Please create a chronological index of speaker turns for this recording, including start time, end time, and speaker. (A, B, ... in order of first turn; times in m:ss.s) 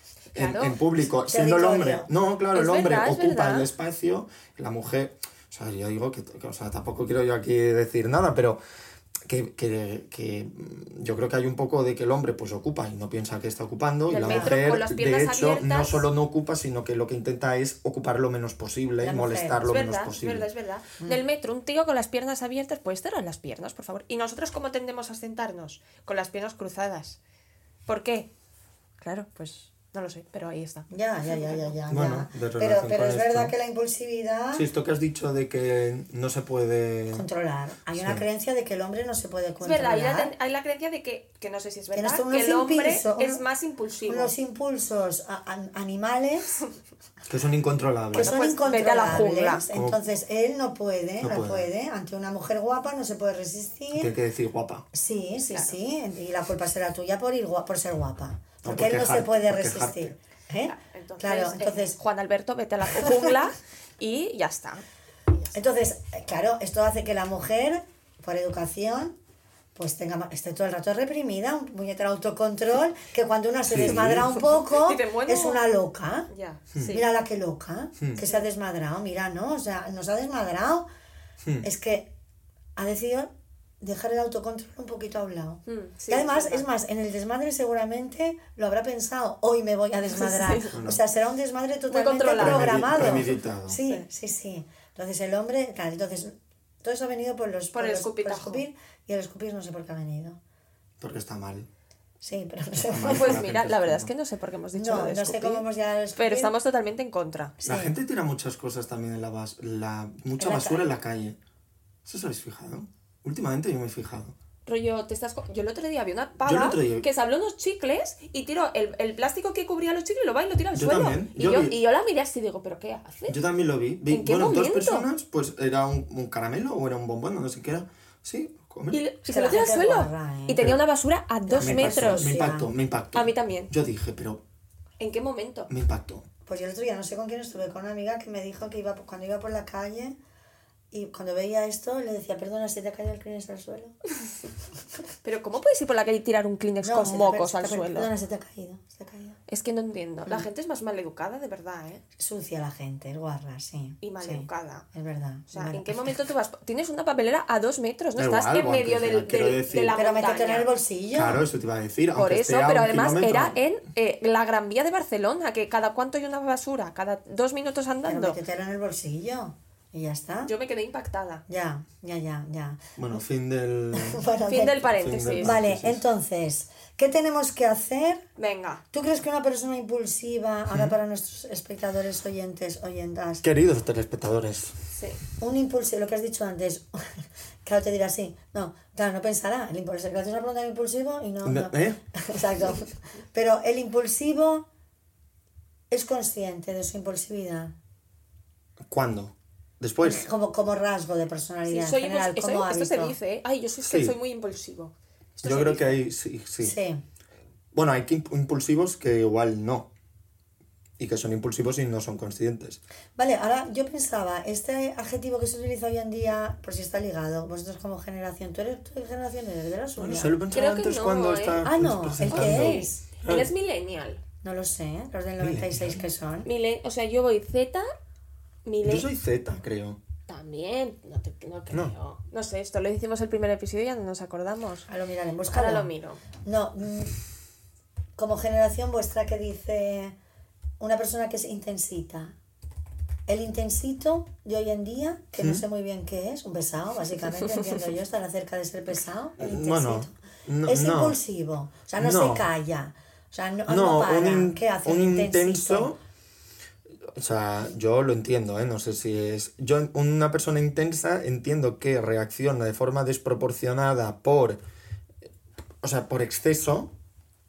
0:00.3-0:00.8 A
0:00.3-0:08.6 B
0:01.0-0:02.1 C
0:02.5-0:03.7 A
0:09.3-0:20.5 B
0:14.1-0:16.0 A
0:14.2-0:14.6 C
0:19.0-0:19.6 C
0:19.6-0:27.2 A
0:27.9-0:28.3 A
0:29.0-0:31.6 A
0:30.9-0:34.7 C
0:31.9-0:33.5 B
0:34.5-0:37.3 B
0:37.1-0:40.3 C
0:37.9-0:38.2 B
0:39.6-0:44.3 A
0:41.9-0:43.4 C
0:44.1-0:46.6 C
0:47.3-0:48.4 B
0:48.1-0:54.1 C
0:48.2-0:49.6 A
0:49.7-0:50.0 B
0:51.2-0:51.7 B
0:53.9-0:54.9 B
0:54.9-1:02.0 C
0:55.5-0:55.8 A
0:58.6-1:00.1 B
1:00.6-1:05.6 A
1:02.9-1:03.4 C
1:05.5-1:09.2 C
1:09.8-1:16.3 C
1:13.7-1:14.3 B
1:13.8-1:15.6 A
1:16.3-1:17.1 A
1:16.8-1:20.9 C
1:21.6-1:22.1 C
1:22.8-1:23.3 C
1:23.8-1:40.4 C
1:25.7-1:26.6 A
1:30.1-1:30.8 A
1:30.8-1:31.0 B
1:31.9-1:34.1 A
1:32.4-1:33.8 B
1:37.7-1:38.6 A
1:41.0-1:41.7 B
1:42.2-1:43.5 C
1:42.8-1:44.1 B
1:43.1-1:47.6 A
1:44.7-1:46.5 C
1:47.6-1:48.0 C
1:47.6-1:51.4 B
1:50.4-1:50.9 A
1:52.0-1:54.4 B
1:54.7-2:03.4 A
1:56.4-1:57.1 B
2:00.7-2:01.8 B
2:03.3-2:09.0 B
2:04.1-2:05.1 A
2:08.9-2:12.4 A
2:09.3-2:10.7 C
2:11.5-2:12.7 C
2:11.6-2:14.4 B
2:13.1-2:13.7 A
2:15.0-2:15.7 A
2:15.7-2:16.3 B
2:16.5-2:20.2 C
2:20.9-2:24.0 C
2:25.2-2:28.1 A
2:26.8-2:29.4 C
2:29.5-2:32.0 A
2:32.2-2:36.2 C
2:34.0-2:34.9 A
2:35.5-2:40.7 A
2:38.2-2:40.0 B
2:39.9-2:41.4 C
2:41.1-2:43.6 B
2:42.2-2:48.4 A
2:48.1-2:50.5 C
2:50.4-2:51.4 A
2:51.5-2:53.0 C
2:53.0-2:54.2 B
2:53.9-2:58.2 C
2:54.5-2:55.5 A
2:54.9-2:56.0 B
2:58.4-2:58.8 A
2:58.9-3:03.4 C
3:03.4-3:04.8 B
3:04.9-3:05.2 A
3:05.4-3:14.7 C
3:11.4-3:12.0 B
3:15.9-3:17.7 C
3:18.9-3:20.3 B
3:20.0-3:23.2 C
3:21.7-3:26.0 A
3:23.8-3:24.2 B
3:25.4-3:26.8 B
3:26.6-3:27.0 C
3:27.7-3:29.9 B
3:31.0-3:32.8 B
3:33.2-3:40.4 C
3:40.0-3:43.5 B
3:40.5-3:41.7 A
3:41.6-3:43.0 C
3:42.2-3:44.2 A
3:44.4-3:46.5 C
3:45.4-3:46.0 B
3:46.4-3:47.9 A
3:48.7-3:49.1 A
3:48.8-3:50.0 B
3:50.3-3:54.9 A
3:54.9-3:55.9 C
3:55.5-3:56.2 A
3:56.4-3:57.2 C
3:58.2-4:00.2 C
4:00.8-4:02.3 C
4:03.3-4:15.9 C
4:05.4-4:05.6 B
4:09.4-4:11.2 B
4:12.0-4:12.5 B
4:13.7-4:16.0 B
4:17.2-4:24.6 B
4:25.8-4:26.9 B